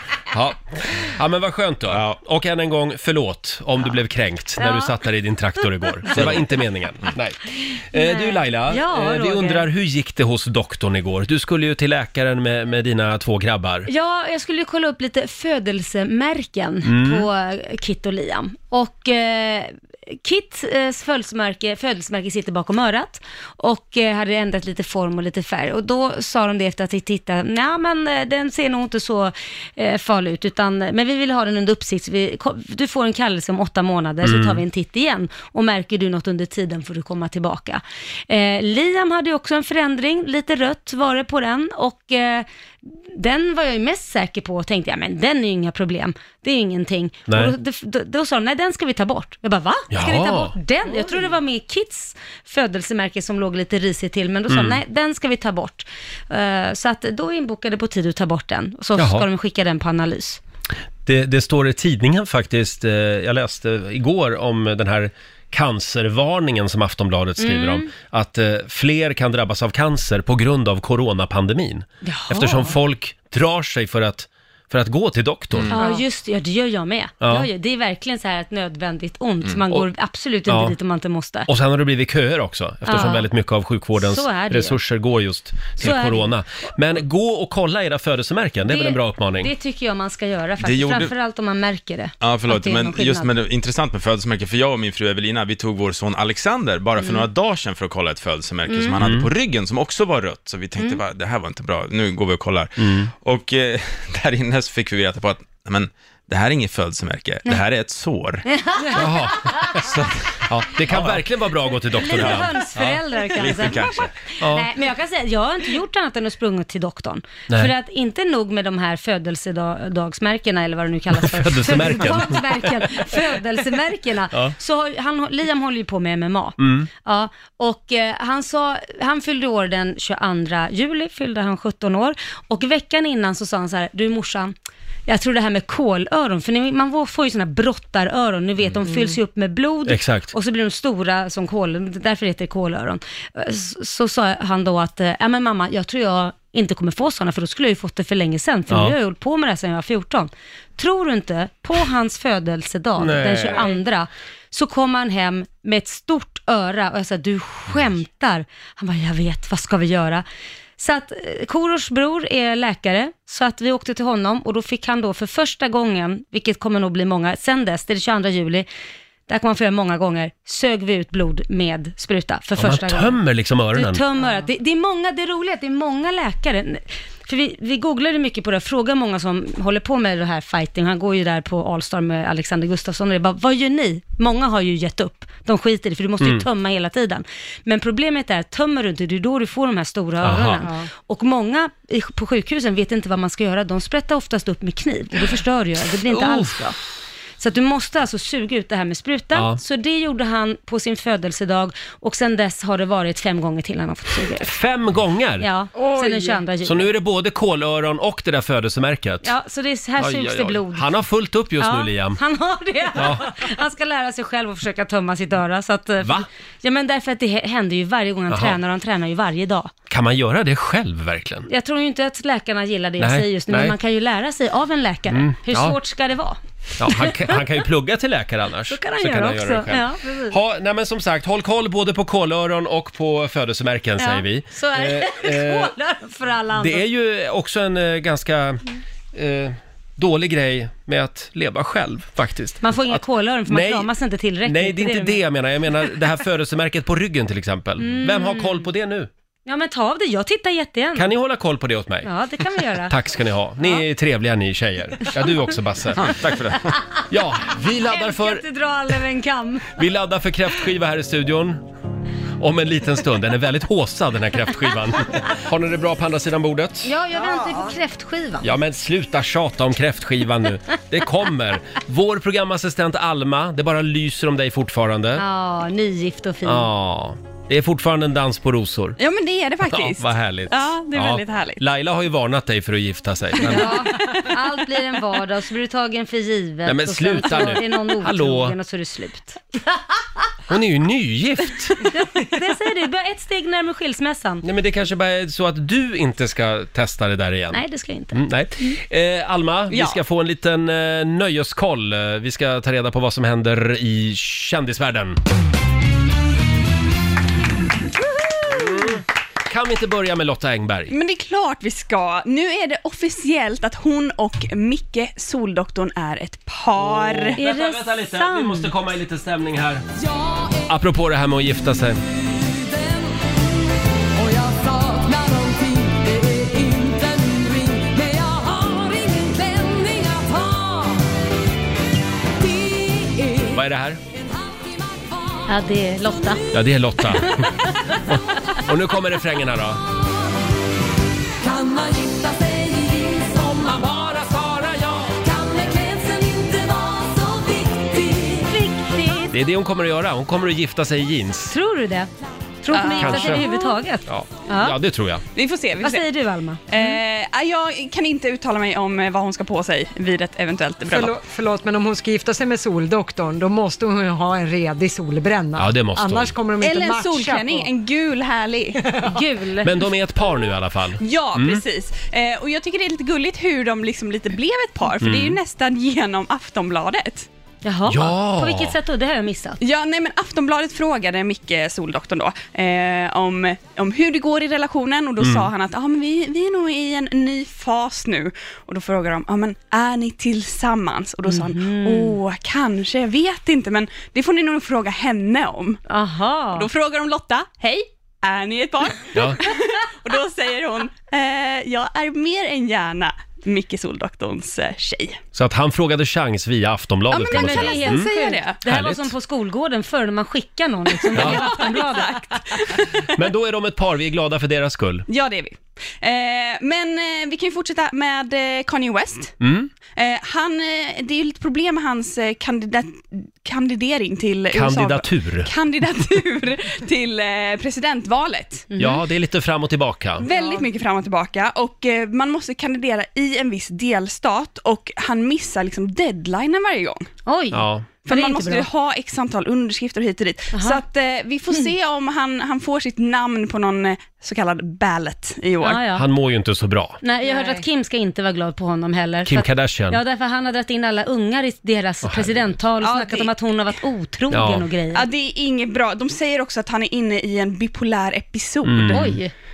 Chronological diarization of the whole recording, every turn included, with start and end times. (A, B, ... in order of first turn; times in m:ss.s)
0:00.3-0:07.4 A
0:01.9-0:02.2 B
0:04.6-0:04.9 C
0:06.1-0:06.4 B
0:07.9-0:13.9 A
0:07.9-0:09.7 C
0:13.9-0:42.5 C
0:16.8-0:17.3 A
0:34.2-0:34.6 A
0:43.1-1:00.4 C
0:47.3-0:47.5 A
0:49.9-0:50.5 A
0:54.5-0:54.8 A
0:59.0-0:59.3 A
1:01.0-1:15.8 A
1:07.4-1:07.9 C
1:12.0-1:12.7 C
1:15.7-1:21.5 C
1:17.2-1:17.5 A
1:20.4-1:20.8 A
1:21.5-1:29.5 A
1:22.8-1:23.3 C
1:24.0-1:24.8 C
1:25.8-1:26.3 C
1:28.7-1:33.3 C
1:30.6-1:31.1 B
1:32.2-1:48.4 B
1:37.0-1:37.3 C
1:38.7-1:39.0 C
1:39.0-1:39.3 A
1:42.8-1:43.1 A
1:48.4-1:49.6 C
1:48.9-1:49.9 A
1:49.7-1:51.2 B
1:50.5-1:53.0 A
1:51.9-2:14.5 C
1:52.0-1:52.5 B
1:53.3-1:54.1 B
1:54.4-1:54.7 A
2:01.1-2:03.1 A
2:06.6-2:06.9 A
2:15.1-2:40.2 C
2:19.9-2:20.3 A
2:28.7-2:28.9 A
2:33.0-2:33.8 A
2:40.8-2:48.7 C
2:49.3-2:53.2 C
2:52.6-2:54.0 A
2:53.7-3:16.8 C
3:06.2-3:06.4 A
3:10.2-3:10.7 A
3:16.1-3:16.7 A
3:17.4-3:24.5 C
3:19.3-3:19.6 A
3:24.4-3:25.5 A
3:25.4-3:26.9 C
3:25.7-3:26.4 D
3:26.6-3:29.3 A
3:29.2-3:30.9 C
3:30.0-3:32.2 A
3:31.6-3:39.7 C
3:33.0-3:33.3 A
3:38.3-3:38.6 A
3:39.9-3:41.5 A
3:41.5-3:47.4 C
3:43.0-3:43.8 A
3:45.1-3:45.8 A
3:46.8-3:55.7 A
3:48.7-3:50.4 C
3:54.0-3:56.8 C
3:56.5-4:03.9 A
4:02.6-4:05.2 C
4:04.4-4:09.1 A
4:07.8-4:08.6 C
4:09.4-4:11.1 C
4:10.9-4:12.1 A
4:12.0-4:12.9 C
4:12.6-4:16.4 A
4:16.0-4:16.8 B
4:17.1-4:18.4 A
4:17.9-4:19.7 C
4:19.7-4:21.6 A
4:22.4-4:26.9 A
4:26.8-4:28.5 C
4:27.4-4:27.6 D
4:28.4-4:35.2 A
4:35.2-4:36.7 C
4:36.4-4:39.0 A
4:39.0-4:41.6 E
4:39.6-4:43.9 A
4:43.4-4:49.4 C
4:46.6-4:48.6 A
4:50.5-4:51.7 A
4:51.9-4:54.4 C
4:54.4-5:05.2 A
4:57.5-4:58.8 C
4:59.7-5:00.0 E
5:08.5-5:10.9 A
5:10.9-5:17.4 E
5:16.7-5:19.8 A
5:17.4-5:18.7 C
5:20.6-5:22.0 A
5:24.3-5:25.2 F
5:25.8-5:26.2 F
5:26.8-5:27.3 F
5:27.8-5:30.6 D
5:33.4-5:34.0 A
5:35.4-5:36.4 C
5:36.5-5:39.8 A
5:37.1-5:38.0 C
5:41.5-5:43.1 F
5:43.6-5:45.2 A
5:45.4-5:46.9 F
5:47.5-5:47.8 F
5:48.4-5:49.3 C
5:49.3-5:51.5 A
5:51.5-5:52.1 C
5:52.6-5:54.8 C
5:52.7-5:53.6 E
5:53.0-5:53.5 A
5:54.1-5:55.2 A
5:55.3-5:56.1 E
5:55.8-5:57.0 C
5:56.7-6:01.2 E
6:00.9-6:07.7 D
6:05.6-6:06.4 A
6:06.6-6:09.0 E
6:09.0-6:09.7 C
6:09.6-6:11.6 A
6:11.0-6:17.3 E
6:15.0-6:15.4 A
6:17.6-6:19.6 C
6:17.9-6:18.8 A
6:19.6-6:35.8 E
6:25.2-6:25.5 A
6:31.2-6:32.2 C
6:35.9-6:36.7 C
6:36.5-6:45.2 E
6:45.3-6:48.1 A
6:47.1-6:48.6 E
6:47.3-6:52.4 C
6:48.6-6:49.1 A
6:51.0-6:53.2 E
6:51.1-6:51.5 A
6:53.1-6:55.0 A
6:55.1-6:59.4 E
6:59.4-6:59.7 A
6:59.9-7:08.7 E
7:04.5-7:05.5 A
7:08.7-7:09.0 C
7:08.8-7:10.2 A
7:10.2-7:17.1 E
7:10.2-7:10.6 C
7:17.2-7:18.7 C
7:17.5-7:17.9 A
7:18.0-7:25.8 E
7:20.5-7:20.8 C
7:25.6-7:26.0 C
7:25.9-7:27.0 A
7:27.0-7:35.1 C
7:29.2-7:30.0 A
7:32.0-7:32.6 A
7:32.8-7:33.3 E
7:34.3-7:34.7 A
7:34.9-7:39.2 E
7:38.6-7:39.2 A
7:38.9-7:39.3 C